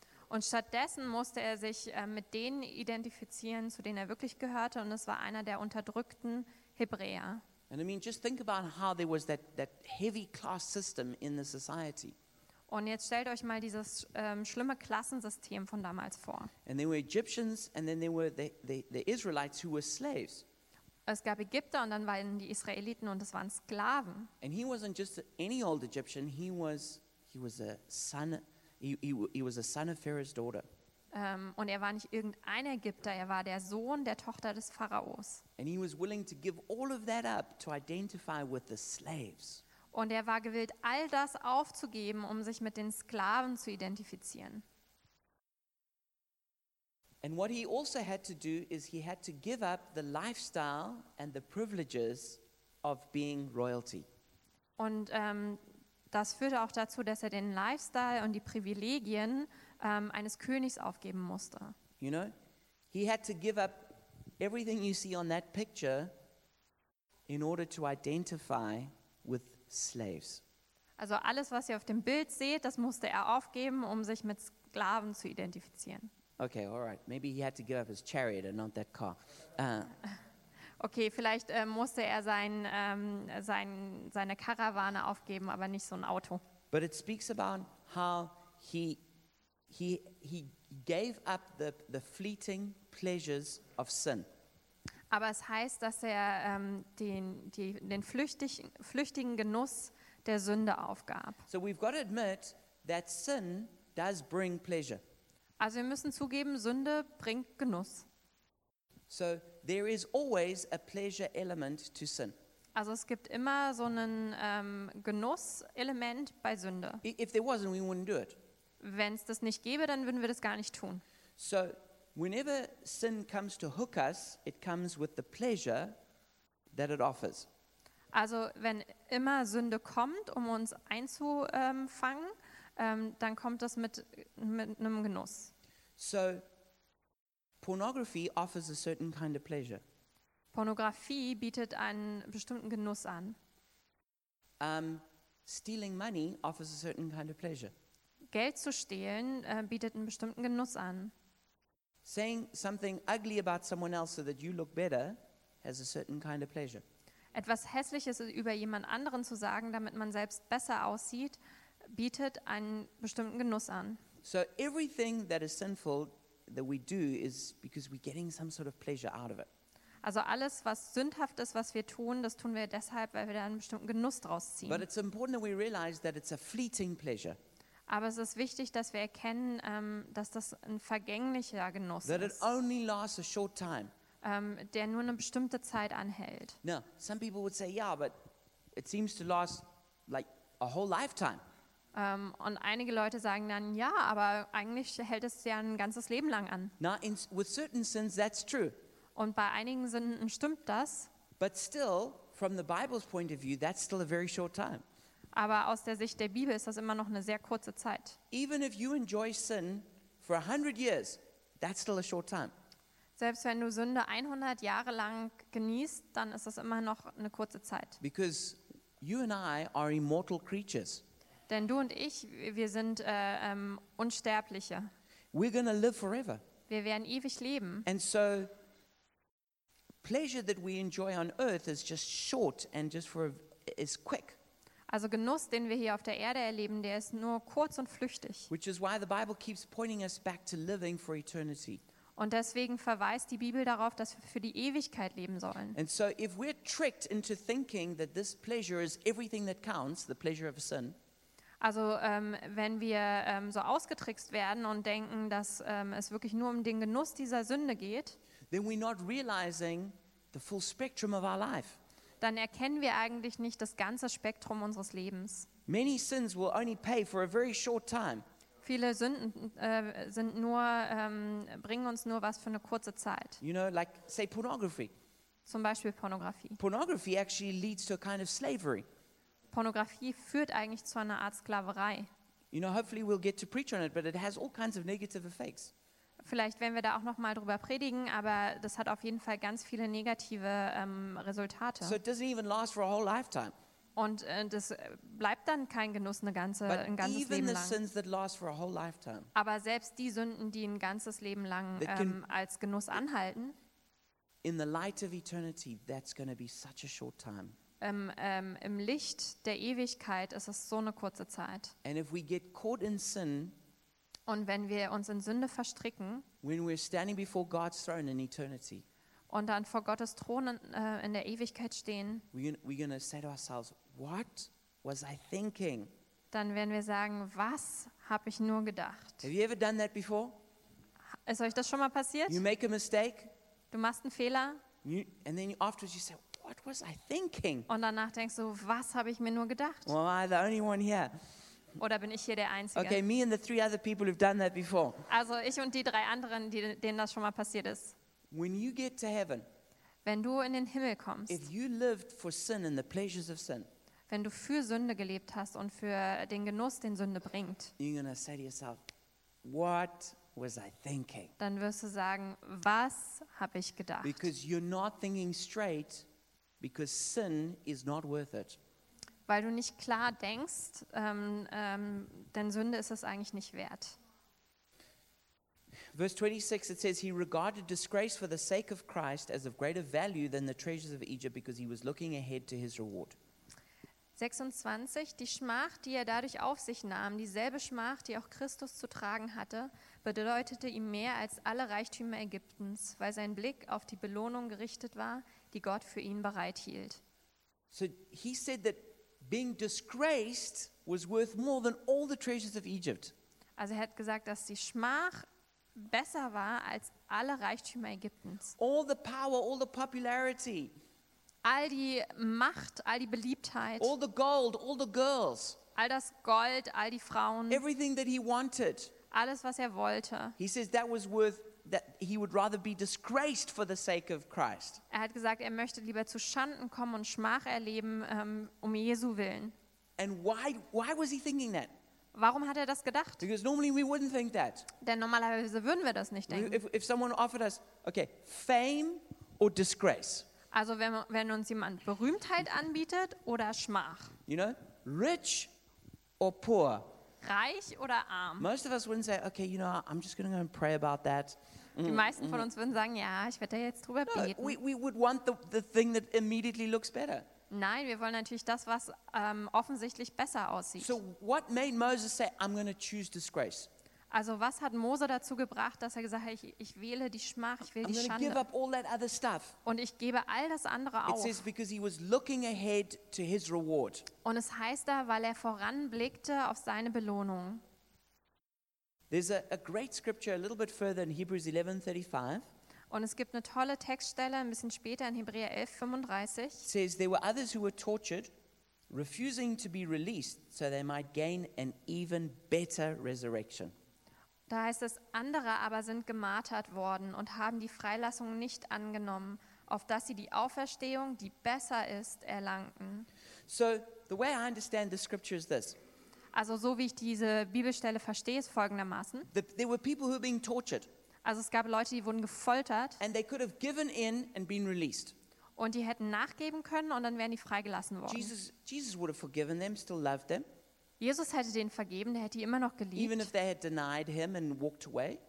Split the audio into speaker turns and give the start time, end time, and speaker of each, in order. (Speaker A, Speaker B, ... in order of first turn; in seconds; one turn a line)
Speaker A: 0.3-7.4
Speaker B: 7.7-12.2
Speaker A: 12.7-16.5
Speaker B: 16.6-20.4
Speaker A: 21.1-24.3
Speaker B: 24.4-30.6
Speaker A: 31.1-35.4
Speaker B: 35.6-39.6
Speaker A: 39.9-44.6
Speaker B: 47.2-54.0
Speaker A: 54.8-55.6
Speaker A: 56.1-61.8
Speaker B: 62.0-62.3
Speaker B: 62.9-66.1
Speaker B: 67.3-70.4
Speaker A: 71.0-76.1
Speaker B: 76.4-79.9
Speaker A: 80.8-86.4
Speaker B: 86.7-89.0
Speaker B: 89.7-94.2
Speaker A: 95.1-101.4
Speaker B: 101.5-105.0
Speaker A: 105.6-108.0
Speaker B: 109.1-112.3
Speaker A: 112.7-117.0
Speaker B: 117.0-118.4
Speaker A: 118.8-121.0
Speaker B: 121.4-125.9
Speaker B: 126.7-127.5
Speaker A: 128.1-135.5
Speaker B: 136.0-136.4
Speaker B: 137.6-139.8
Speaker A: 140.5-143.4
Speaker B: 144.6-147.7
Speaker A: 148.3-151.1
Speaker B: 152.0-156.8
Speaker A: 157.3-164.0
Speaker B: 164.2-169.5
Speaker A: 170.0-174.8
Speaker B: 174.7-177.4
Speaker A: 177.9-182.4
Speaker B: 182.0-183.9
Speaker A: 184.2-186.6
Speaker B: 186.6-188.1
Speaker B: 188.7-191.4
Speaker A: 191.9-196.7
Speaker B: 196.8-198.8
Speaker A: 199.2-201.1
Speaker B: 201.4-204.8
Speaker A: 205.3-208.2
Speaker B: 208.3-212.5
Speaker A: 213.2-218.0
Speaker B: 218.0-221.0
Speaker A: 221.5-224.9
Speaker B: 225.3-226.4
Speaker A: 226.7-227.8
Speaker B: 227.8-228.5
Speaker B: 230.0-234.4
Speaker A: 234.9-238.5
Speaker B: 238.5-241.8
Speaker A: 242.2-245.8
Speaker B: 245.7-250.9
Speaker A: 251.6-258.2
Speaker B: 258.5-261.8
Speaker A: 262.2-265.5
Speaker B: 265.7-268.2
Speaker A: 268.6-273.4
Speaker B: 273.4-274.9
Speaker A: 275.4-276.6
Speaker B: 276.6-278.8
Speaker A: 279.5-282.1
Speaker B: 282.5-285.7
Speaker A: 286.2-292.0
Speaker B: 291.8-293.5
Speaker A: 293.9-297.8
Speaker B: 296.6-299.3
Speaker A: 299.3-303.5
Speaker B: 301.8-302.2
Speaker B: 304.4-307.6
Speaker A: 307.8-311.7
Speaker B: 311.8-313.6
Speaker A: 314.3-316.2
Speaker B: 316.4-318.8
Speaker A: 319.3-322.2
Speaker B: 322.3-325.9
Speaker A: 326.3-329.3
Speaker B: 329.2-330.4
Speaker A: 331.2-332.4
Speaker B: 332.3-333.3
Speaker A: 333.7-334.6
Speaker B: 334.8-337.7
Speaker A: 337.7-339.9
Speaker B: 339.9-341.1
Speaker A: 341.8-343.0
Speaker B: 342.7-345.0
Speaker A: 345.1-347.9
Speaker B: 348.3-349.4
Speaker A: 350.0-351.4
Speaker B: 351.3-353.7
Speaker A: 354.1-357.7
Speaker B: 357.8-358.8
Speaker B: 359.4-361.3
Speaker A: 361.4-364.3
Speaker B: 364.0-366.1
Speaker B: 366.6-368.6
Speaker A: 369.3-373.9
Speaker B: 375.9-383.1
Speaker A: 384.1-397.0
Speaker B: 397.7-403.1
Speaker A: 403.6-408.6
Speaker B: 408.6-410.7
Speaker A: 411.4-413.9
Speaker B: 413.8-415.6
Speaker A: 415.8-417.6
Speaker B: 417.5-418.9
Speaker A: 419.1-420.4
Speaker B: 420.4-424.8
Speaker A: 424.9-429.5
Speaker B: 430.0-431.7
Speaker A: 432.1-433.2
Speaker B: 433.2-434.7
Speaker A: 434.8-436.6
Speaker B: 436.3-440.3
Speaker A: 440.5-444.1
Speaker B: 444.2-445.5
Speaker B: 446.2-446.9
Speaker A: 447.2-448.5
Speaker B: 448.4-452.5
Speaker A: 451.8-454.6
Speaker B: 454.1-457.2
Speaker A: 457.5-461.0
Speaker B: 460.8-463.7
Speaker A: 464.1-468.4
Speaker B: 467.8-469.6
Speaker A: 469.6-471.4
Speaker B: 471.1-474.1
Speaker A: 474.2-477.6
Speaker B: 479.1-482.4
Speaker A: 482.9-486.7
Speaker B: 486.6-488.3
Speaker B: 488.9-493.7
Speaker A: 494.5-503.1
Speaker B: 503.5-505.8
Speaker A: 506.3-509.3
Speaker B: 509.3-510.9
Speaker A: 511.2-513.0
Speaker B: 513.0-515.1
Speaker A: 515.6-518.3
Speaker B: 518.1-520.4
Speaker A: 521.0-523.3
Speaker B: 522.9-525.2